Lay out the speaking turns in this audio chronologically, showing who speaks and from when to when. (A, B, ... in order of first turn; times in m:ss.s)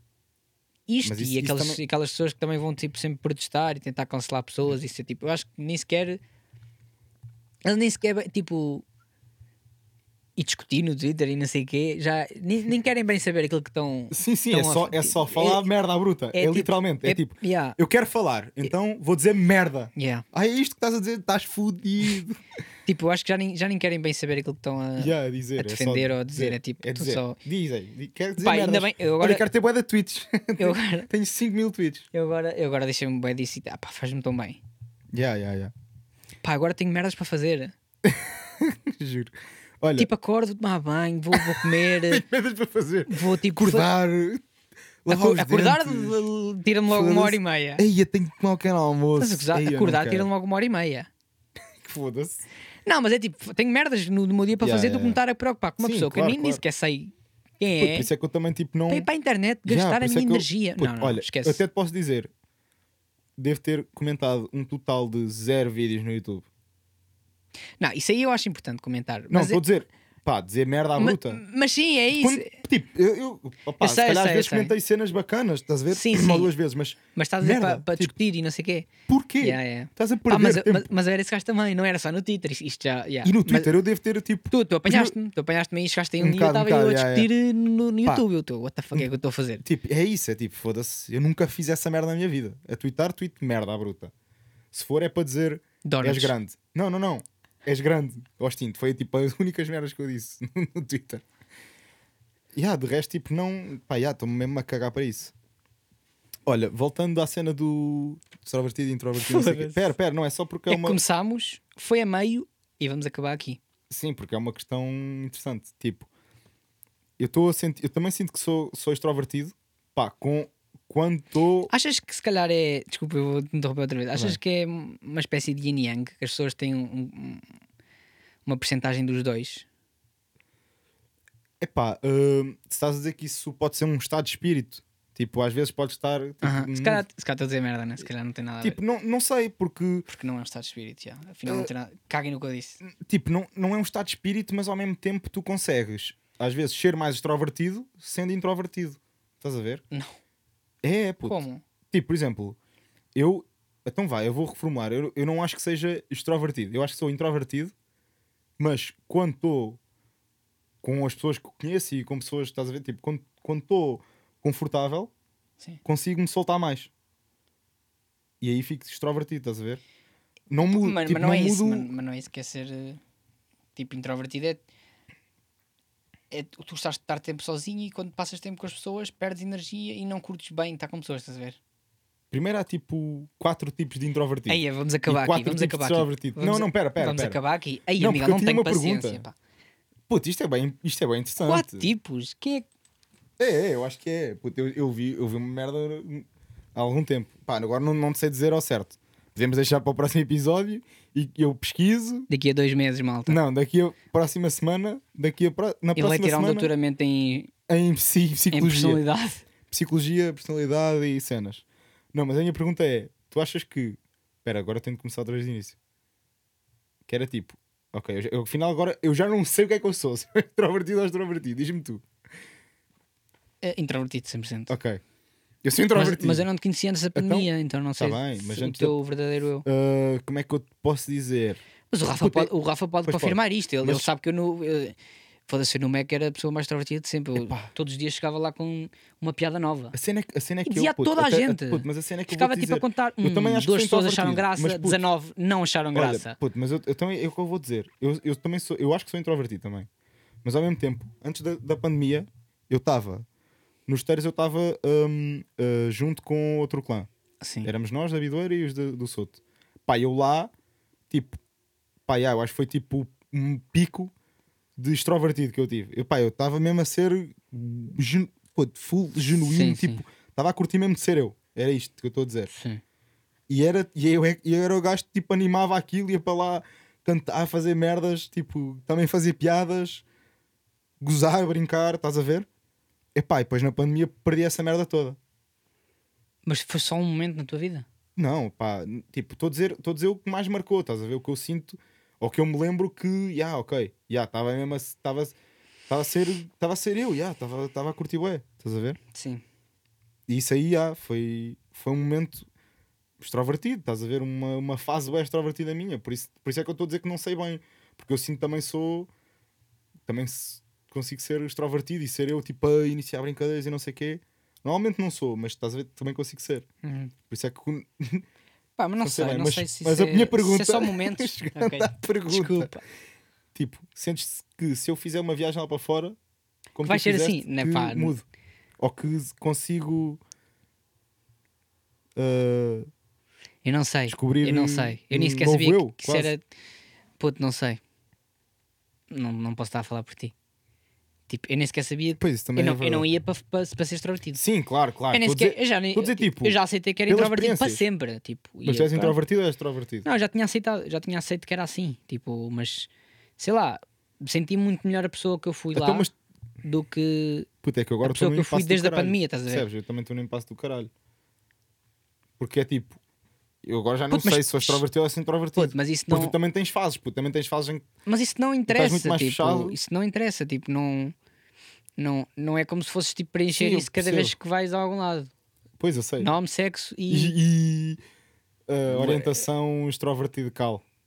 0:00.9-0:06.2 A
0:01.0-0:01.8 B
0:07.6-0:08.8 A
0:10.4-0:15.7 A
0:14.1-0:22.4 B
0:16.3-0:17.8 A
0:20.0-0:20.2 A
0:22.8-0:27.4 A
0:25.0-0:32.1 B
0:28.4-0:29.4 A
0:30.6-0:31.1 A
0:32.1-0:34.6 A
0:35.1-0:35.7 B
0:36.4-0:37.7 A
0:38.0-0:40.1 B
0:40.0-0:42.2 A
0:41.3-0:44.4 B
0:43.1-0:43.9 A
0:45.0-0:46.2 B
0:45.1-0:47.8 A
0:46.9-0:50.3 B
0:49.2-0:51.1 A
0:51.8-0:52.4 B
0:52.8-0:58.1 A
0:54.6-0:55.2 B
0:55.8-0:56.6 B
0:57.8-0:59.1 B
0:58.9-1:01.6 A
0:59.7-1:02.3 B
1:03.4-1:06.4 B
1:07.8-1:09.6 A
1:09.3-1:11.4 B
1:11.0-1:12.6 A
1:12.1-1:18.1 B
1:13.8-1:14.7 A
1:15.9-1:16.5 A
1:17.1-1:18.9 A
1:19.1-1:20.9 B
1:19.4-1:23.7 A
1:23.2-1:25.1 B
1:24.5-1:29.6 A
1:26.2-1:27.3 B
1:29.6-1:34.1 B
1:34.7-1:41.2 B
1:35.8-1:36.3 A
1:42.5-1:45.3 B
1:46.4-1:51.0 B
1:49.1-1:49.9 A
1:50.7-1:53.6 A
1:53.9-1:56.1 B
1:57.2-2:01.7 B
2:01.7-2:07.4 A
2:04.1-2:04.4 B
2:08.4-2:09.6 A
2:11.6-2:17.0 B
2:16.4-2:18.8 A
2:18.6-2:20.1 B
2:20.1-2:22.8 A
2:22.8-2:29.8 B
2:30.8-2:32.6 B
2:31.2-2:31.6 A
2:33.1-2:37.7 B
2:38.6-2:39.8 B
2:40.8-2:45.1 B
2:45.8-2:46.9 B
2:48.4-2:49.8 B
2:50.5-2:51.9 B
2:50.6-2:53.0 A
2:53.8-2:54.6 A
2:56.3-3:01.6 A
3:02.3-3:07.4 B
3:04.5-3:09.3 A
3:08.0-3:09.2 B
3:10.1-3:11.9 B
3:11.4-3:12.6 A
3:13.4-3:22.3 B
3:22.3-3:23.4 A
3:23.3-3:26.7 B
3:26.0-3:27.5 A
3:27.7-3:29.0 B
3:28.5-3:29.4 A
3:29.7-3:35.8 B
3:37.1-3:42.0 B
3:43.6-3:44.7 A
3:44.7-3:45.0 B
3:45.6-3:46.5 B
3:45.9-3:49.6 A
3:47.1-3:49.0 B
3:49.6-3:51.6 B
3:51.9-3:54.9 A
3:52.2-3:52.5 B
3:53.0-3:54.1 B
3:55.5-4:00.0 A
3:57.3-3:57.7 B
3:59.9-4:05.0 B
4:00.6-4:06.4 A
4:05.9-4:09.9 B
4:10.4-4:13.2 B
4:13.9-4:17.1 B
4:17.4-4:17.7 A
4:17.6-4:20.5 B
4:21.1-4:21.4 B
4:22.1-4:24.1 B
4:24.8-4:32.5 B
4:29.4-4:30.0 A
4:32.5-4:32.8 A
4:33.5-4:40.0 B
4:41.0-4:42.5 B
4:43.1-4:45.2 B
4:46.4-4:47.8 A
4:48.2-4:55.3 B
4:55.9-4:59.0 B
4:59.1-4:59.4 A
5:00.3-5:02.5 B
5:03.2-5:09.1 B
5:10.1-5:16.6 B
5:16.8-5:17.1 A
5:17.3-5:18.2 B
5:18.8-5:22.8 A
5:19.0-5:22.7 B
5:23.5-5:26.2 B
5:26.7-5:28.2 B
5:26.8-5:28.1 A
5:28.8-5:30.2 B
5:32.2-5:32.9 B
5:33.6-5:36.4 A
5:34.1-5:36.3 B
5:37.2-5:37.8 A
5:39.1-5:40.3 A
5:41.3-5:44.4 A
5:42.2-5:43.0 B
5:44.4-5:47.8 B
5:45.1-5:49.2 A
5:48.6-5:50.0 B
5:50.0-5:56.1 A
5:55.7-5:56.1 B
5:56.6-5:57.5 A
5:57.6-6:00.9 B
5:58.0-5:59.6 A
6:02.4-6:03.0 B
6:03.6-6:07.9 B
6:04.1-6:04.8 A
6:05.6-6:06.4 A
6:08.0-6:11.1 A
6:08.7-6:09.8 B
6:12.0-6:15.3 A
6:13.6-6:14.3 B
6:15.8-6:16.3 B
6:16.2-6:17.4 A
6:17.1-6:18.0 B
6:18.7-6:20.8 B
6:18.9-6:19.4 A